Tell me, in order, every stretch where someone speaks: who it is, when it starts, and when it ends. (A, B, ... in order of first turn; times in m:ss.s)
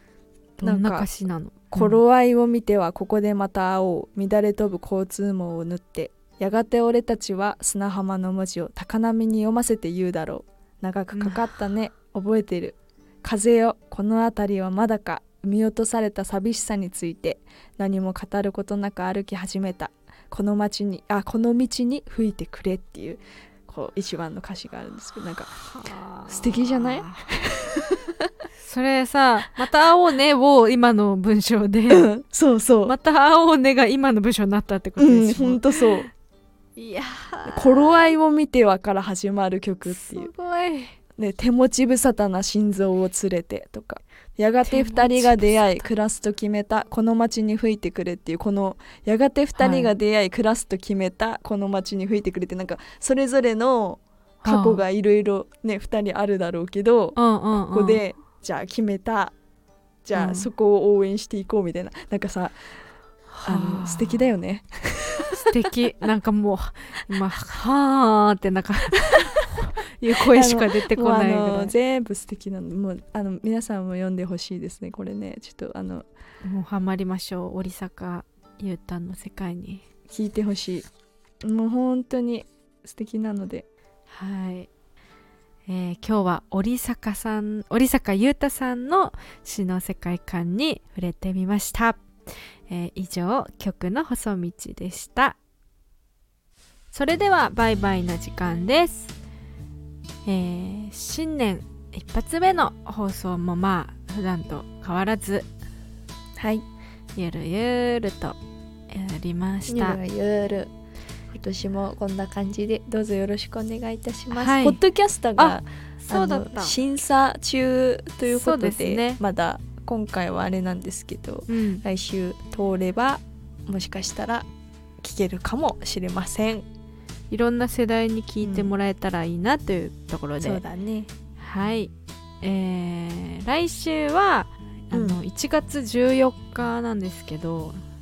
0:00.6-0:02.0 A
0:00.6-0:01.1 B
0:01.7-0:25.6 B
0:11.1-0:11.5 A
0:25.6-0:27.3 A
0:26.3-0:28.3 B
0:28.6-0:32.1 A
0:31.9-0:32.9 B
0:32.8-0:36.1 A
0:35.0-0:36.1 B
0:36.8-0:38.0 A
0:37.5-0:40.3 B
0:39.9-0:41.0 A
0:41.2-0:59.4 B
0:44.6-0:45.6 A
0:49.6-0:50.0 A
0:54.4-0:54.8 A
0:57.2-0:58.0 A
1:00.0-1:02.6 B
1:00.1-1:00.5 A
1:03.4-1:05.6 B
1:03.4-1:04.3 A
1:05.3-1:11.8 A
1:10.3-1:16.1 B
1:16.4-1:19.8 A
1:20.1-1:20.9 B
1:21.4-1:23.7 B
1:24.1-1:24.7 A
1:25.7-1:32.0 A
1:32.7-1:35.4 A
1:36.9-1:39.2 A
1:40.2-1:45.5 A
1:46.4-1:46.6 B
1:47.2-1:48.4 A
1:48.9-1:50.0 A
1:49.7-1:50.7 B
1:51.3-2:04.5 B
1:54.3-1:54.8 A
1:55.4-1:56.8 A
1:58.3-1:59.2 A
2:01.5-2:01.8 A
2:05.0-2:06.7 B
2:07.3-2:10.6 A
2:08.4-2:08.7 B
2:10.4-2:11.1 B
2:11.4-2:17.8 A
2:14.9-2:15.2 B